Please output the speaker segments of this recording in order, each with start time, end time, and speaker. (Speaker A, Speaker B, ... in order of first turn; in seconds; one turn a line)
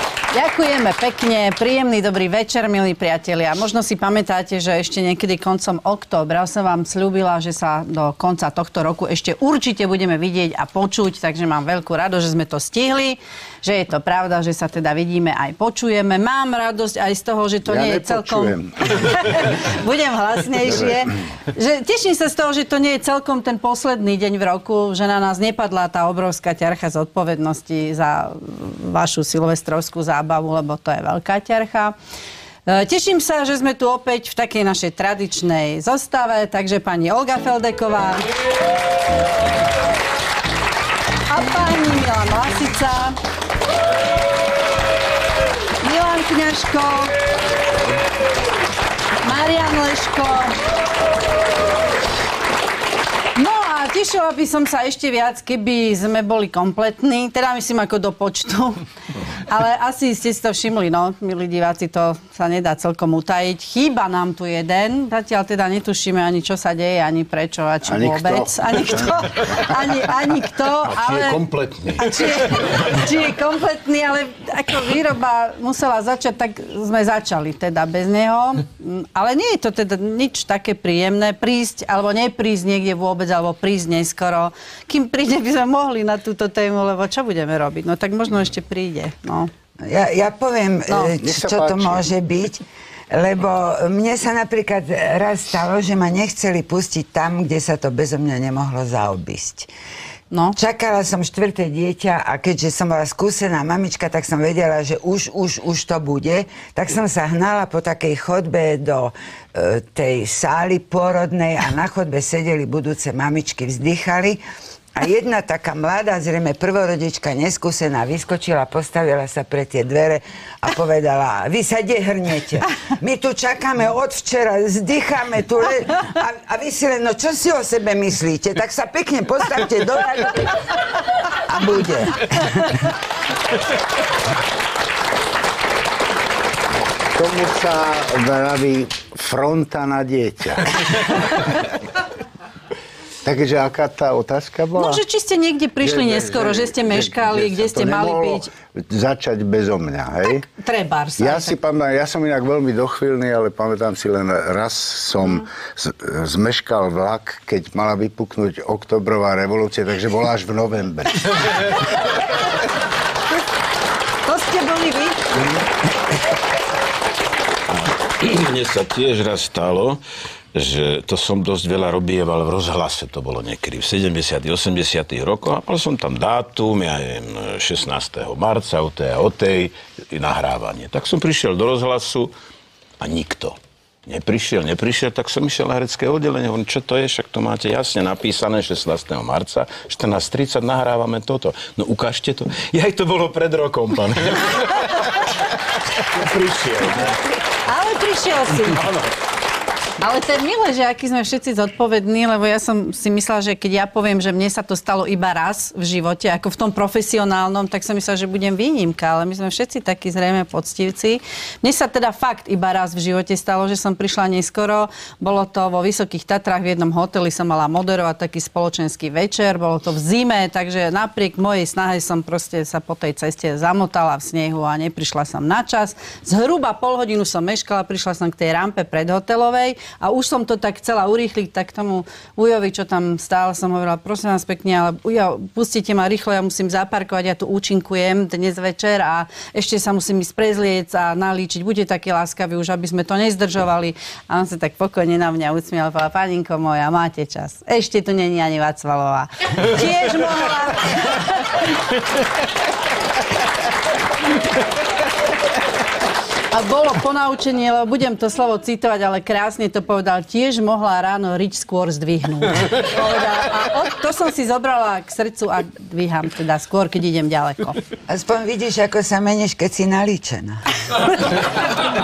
Speaker A: 0.3-31.9
Speaker B: 17.6-18.8
Speaker A: 32.7-38.3
Speaker A: 41.3-43.2
Speaker A: 45.8-47.1
Speaker A: 49.2-50.6
Speaker A: 53.3-58.8
Speaker A: 59.4-89.5
Speaker B: 67.9-69.2
Speaker C: 70.9-72.4
Speaker D: 89.8-99.7
Speaker B: 91.2-92.1
Speaker A: 100.3-100.6
Speaker D: 100.6-114.4
Speaker D: 115.0-130.7
Speaker D: 131.5-132.9
Speaker B: 137.2-141.4
Speaker B: 143.2-145.0
Speaker A: 144.8-148.5
Speaker B: 145.8-150.4
Speaker A: 150.5-151.6
Speaker B: 151.2-161.2
Speaker A: 164.2-165.2
Speaker C: 167.7-170.0
Speaker C: 170.5-182.3
Speaker C: 183.0-195.3
Speaker C: 196.0-197.2
Speaker A: 197.7-198.9
Speaker A: 200.0-251.6
Speaker A: 256.5-267.8
Speaker D: 268.1-270.6